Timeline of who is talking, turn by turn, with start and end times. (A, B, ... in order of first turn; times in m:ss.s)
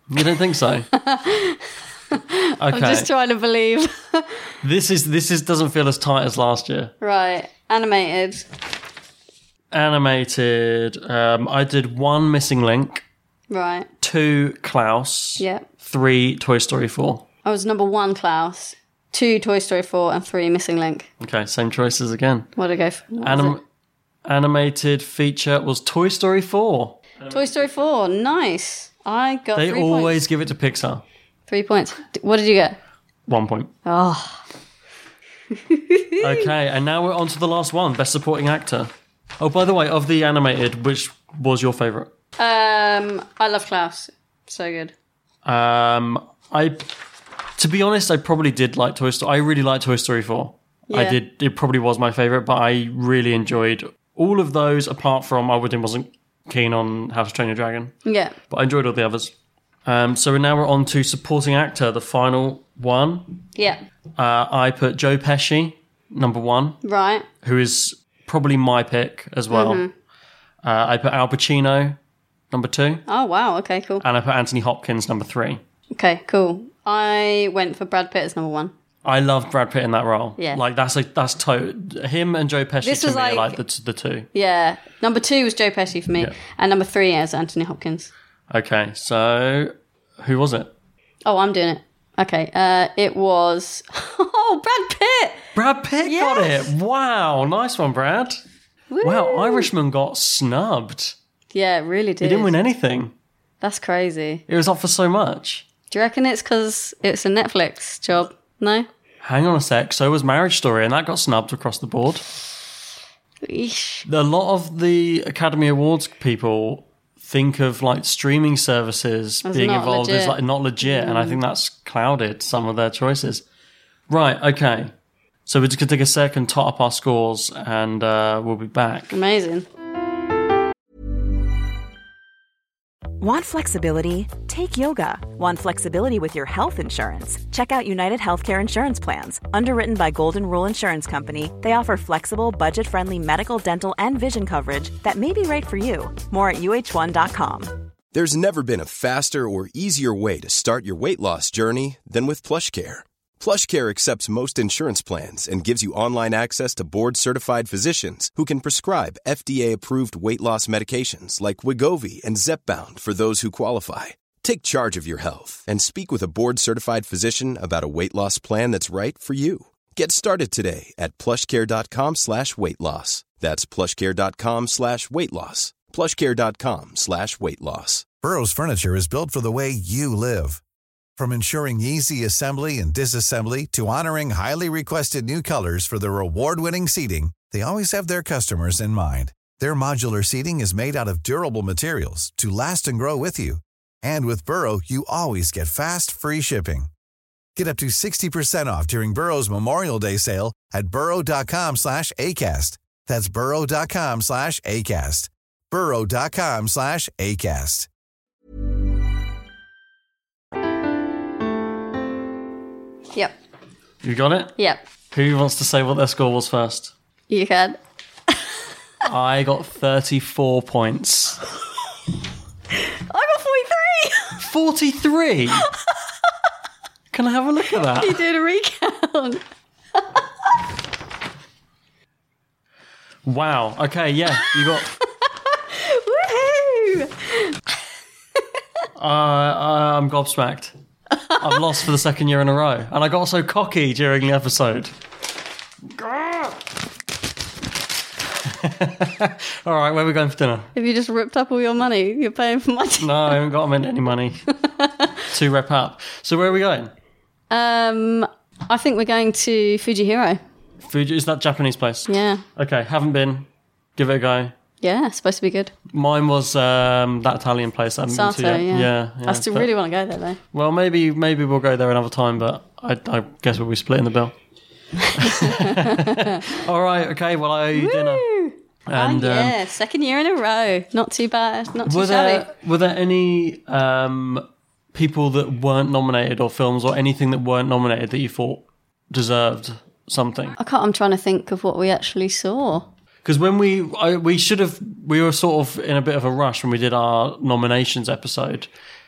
0:00.1-0:00.9 A
0:00.9-0:04.4 B
0:02.6-0:03.1 A
0:04.6-0:06.9 A
0:07.0-0:08.5 B
0:09.7-0:13.0 A
0:13.5-0:13.9 B
0:14.0-0:17.2 A
0:15.4-0:15.6 B
0:17.4-0:21.1 B
0:21.2-0:22.5 A
0:22.6-0:23.6 B
0:23.2-0:23.6 A
0:24.2-0:27.8 A
0:27.3-0:30.2 B
0:29.5-0:31.0 A
0:31.5-0:32.8 B
0:33.3-0:33.7 A
0:33.9-0:34.4 B
0:35.5-0:36.5 B
0:36.2-0:42.1 A
0:42.4-0:44.9 B
0:45.4-0:46.9 A
0:47.6-0:58.0 A
0:50.9-0:51.2 B
0:58.0-0:58.3 B
0:58.5-0:59.3 A
0:59.9-1:03.4 A
1:04.2-1:06.8 A
1:06.8-1:07.2 B
1:07.4-1:09.8 A
1:09.5-1:09.9 B
1:10.6-1:12.0 A
1:12.5-1:13.0 A
1:13.1-1:14.0 B
1:14.0-1:15.6 A
1:16.0-1:18.7 B
1:19.0-1:24.3 A
1:22.8-1:23.6 B
1:24.3-1:28.1 B
1:28.5-1:30.7 A
1:31.2-1:35.4 B
1:35.5-1:38.4 A
1:36.0-1:36.7 B
1:38.9-1:39.7 B
1:39.0-1:41.2 A
1:41.5-1:42.5 B
1:42.2-1:43.1 A
1:43.6-1:44.4 B
1:44.5-1:45.6 A
1:45.9-1:48.9 B
1:49.2-1:52.2 A
1:53.4-1:54.0 B
1:54.1-2:03.4 A
1:59.4-2:01.4 B
2:04.1-2:04.9 A
2:05.5-2:09.1 A
2:09.1-2:09.6 B
2:13.2-2:27.8 C
2:28.1-2:58.1 D
2:58.2-3:00.6 E
3:01.2-3:16.9 E
3:17.6-3:27.9 E
3:34.0-3:34.6 A
3:35.1-3:36.9 A
3:37.3-3:37.8 B
3:39.0-3:41.4 A
3:42.7-3:44.4 B
3:44.4-3:45.7 A
3:47.1-3:48.2 A
3:47.9-3:49.4 B
3:50.0-3:50.2 B
3:53.3-3:54.9 A
3:54.4-3:57.6 B
3:59.0-4:00.7 A
4:01.1-4:01.6 B
4:01.4-4:04.9 A
4:05.9-4:06.6 A
4:08.4-4:10.7 A
4:10.8-4:13.4 B
4:13.0-4:14.4 A
4:14.6-4:15.1 B
4:15.3-4:16.9 A
4:17.5-4:20.4 B
4:20.8-4:24.5 A
4:22.1-4:22.4 B
4:24.8-4:25.7 B
4:25.9-4:29.7 A
4:28.1-4:30.4 B
4:30.5-4:34.3 A
4:35.0-4:36.4 B
4:35.2-4:38.3 A
4:37.8-4:42.4 B
4:38.9-4:39.6 A
4:41.9-4:50.6 A
4:50.6-4:52.9 B
4:53.2-4:58.7 A